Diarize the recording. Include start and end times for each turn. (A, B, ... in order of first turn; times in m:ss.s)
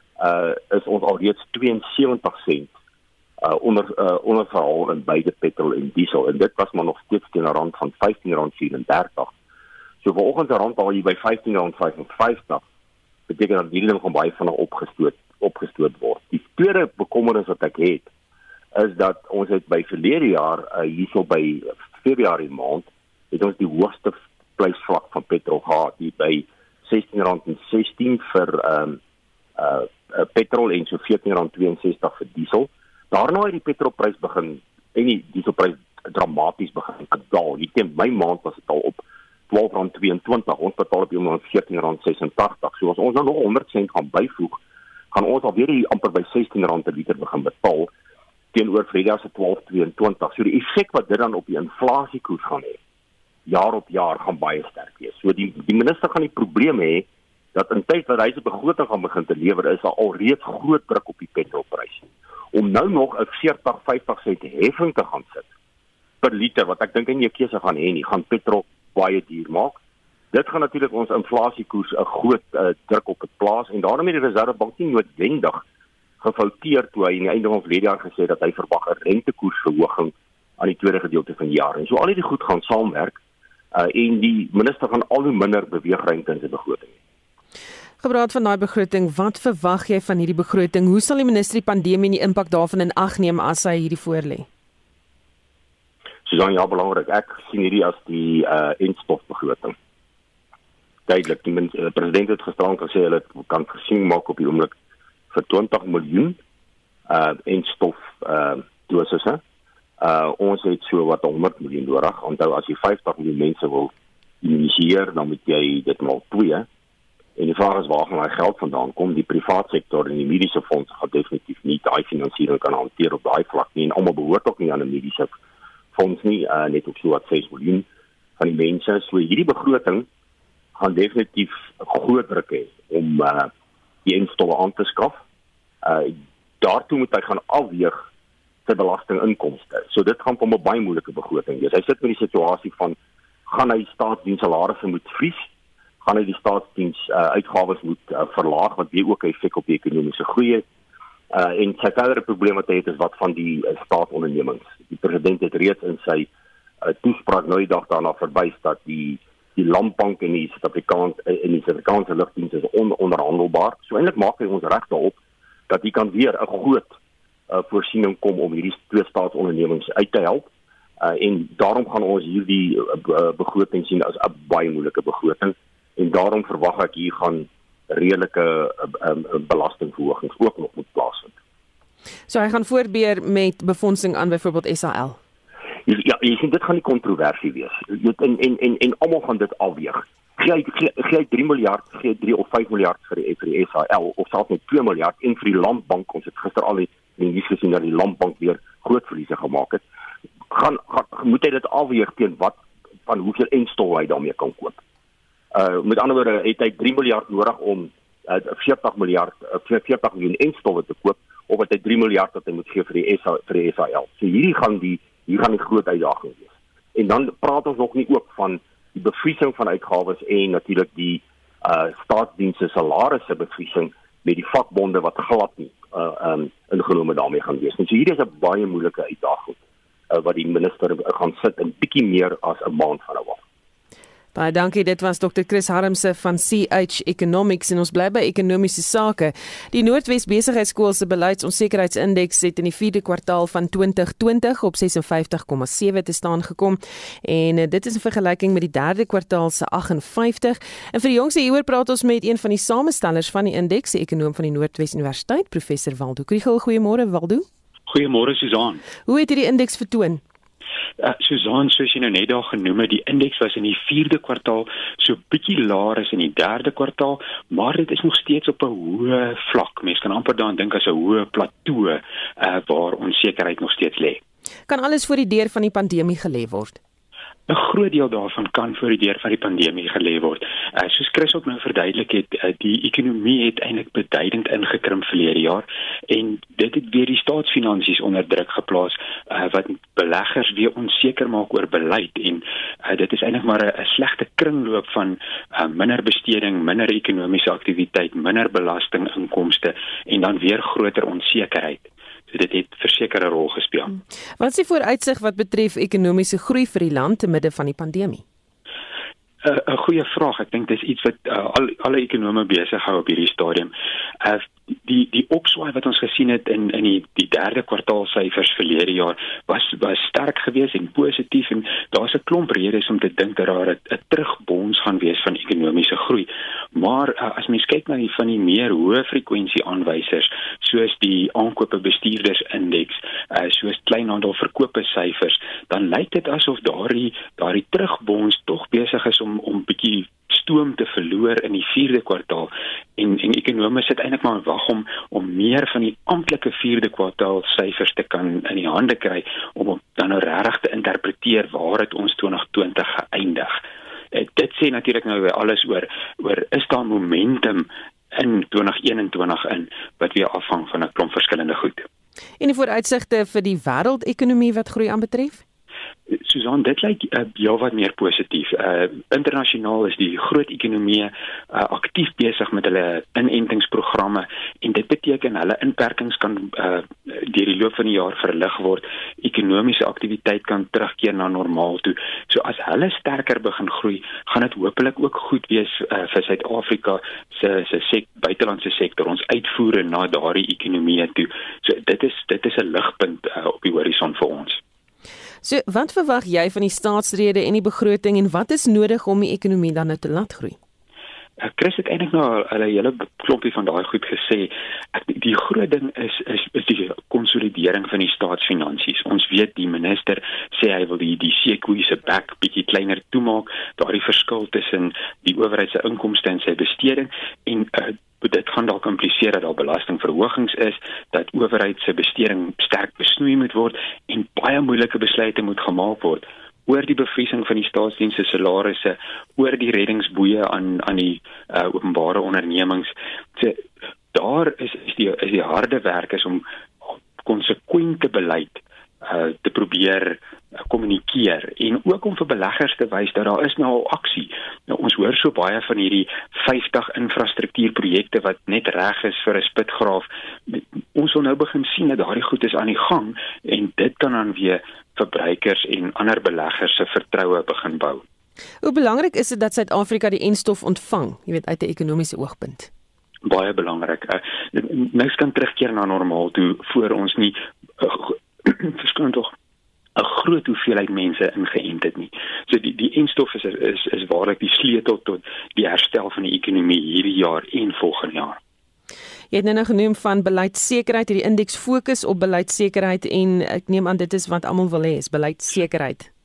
0:00.2-0:02.7 A
0:03.4-0:09.3 A
0:10.0-0:12.6 A
0:13.3-0:18.1 A
0:18.7-0:29.0 A
0:29.6-0:44.6 A
0:45.1-0:47.9 A
0:48.5-0:52.8 A
0:53.4-1:05.4 A
1:06.2-1:09.8 A
1:10.3-1:15.6 A
1:16.2-1:23.2 A
1:23.7-1:26.9 A
1:28.0-1:34.5 B
1:36.2-1:39.7 A
1:41.1-1:44.7 A
1:45.3-1:46.4 A
1:47.1-1:49.4 A
1:50.0-1:56.7 A
1:57.4-2:05.3 A
2:05.9-2:07.8 A
2:08.4-2:10.0 A
2:10.8-2:13.5 A
2:14.0-2:15.2 A
2:15.8-2:18.0 A
2:18.6-2:25.5 A
2:26.0-2:30.6 A
2:31.3-2:36.3 A
2:36.8-2:45.2 A
2:45.7-2:46.9 A
2:47.5-2:50.5 A
2:51.0-3:01.3 A
3:02.3-3:05.2 B
3:05.8-3:19.8 A
3:20.5-3:24.8 A
3:25.5-3:49.6 A
3:50.1-3:53.4 A
3:54.3-4:17.5 B
4:17.9-4:18.8 C
4:19.0-4:20.2 B
4:21.0-4:34.2 C
4:34.7-4:36.8 B
4:37.5-5:03.9 C
5:03.9-5:08.2 B
5:09.4-5:53.6 C
5:54.1-6:01.9 C
6:02.4-6:05.4 B
6:06.1-6:34.6 C
6:35.4-6:40.6 B
6:41.4-7:16.4 C
7:17.2-7:38.0 C
7:38.6-7:42.7 B
7:43.2-7:49.3 C
7:50.0-7:58.4 C
7:59.3-8:06.1 B